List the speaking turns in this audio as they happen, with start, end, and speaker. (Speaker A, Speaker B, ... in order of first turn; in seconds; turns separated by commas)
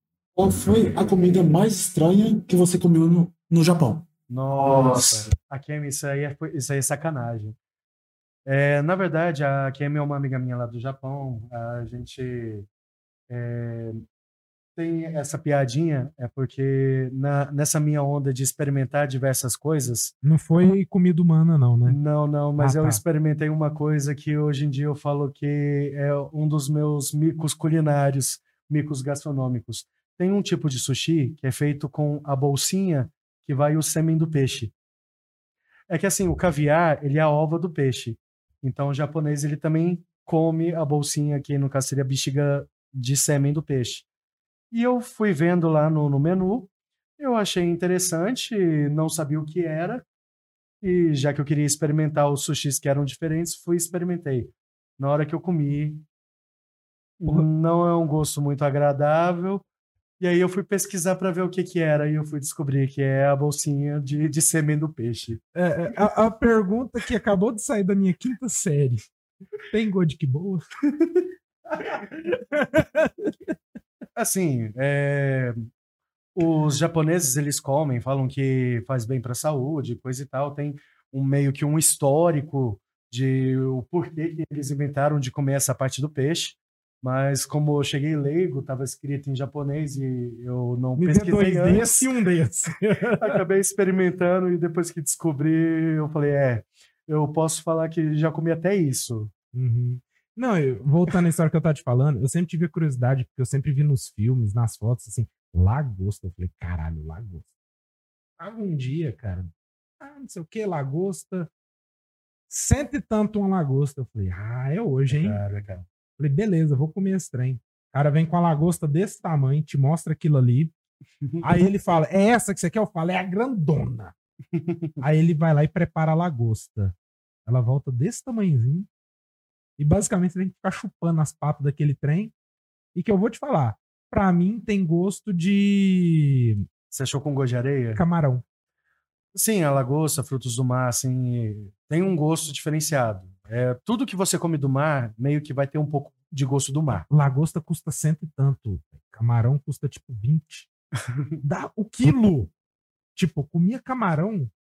Speaker A: 0.3-4.0, Speaker B: 4.3-7.5, Speaker A: 4.6-5.2, Speaker B: 8.4-12.7, Speaker B: 13.3-14.0, Speaker B: 14.8-20.1, Speaker C: 20.2-22.0, Speaker B: 21.9-34.7, Speaker C: 22.6-23.0, Speaker B: 35.9-44.0, Speaker B: 44.7-50.0, Speaker B: 50.8-56.0, Speaker B: 57.2-59.6, Speaker B: 60.2-65.4, Speaker C: 65.5-69.1, Speaker C: 69.7-70.6, Speaker C: 71.8-73.5, Speaker B: 74.2-75.7, Speaker B: 76.3-92.1, Speaker C: 91.0-93.4, Speaker B: 93.2-99.3, Speaker C: 99.5-107.5, Speaker C: 108.4-111.5, Speaker C: 112.5-115.4, Speaker B: 115.1-115.8, Speaker C: 116.2-120.7, Speaker C: 121.4-124.1, Speaker B: 124.5-125.0, Speaker C: 125.0-126.9, Speaker C: 127.5-128.9, Speaker C: 129.8-132.3, Speaker C: 132.9-136.6, Speaker B: 136.9-138.0, Speaker C: 137.9-138.4, Speaker B: 139.3-147.1, Speaker C: 147.1-150.7, Speaker C: 151.4-152.5, Speaker C: 153.1-154.5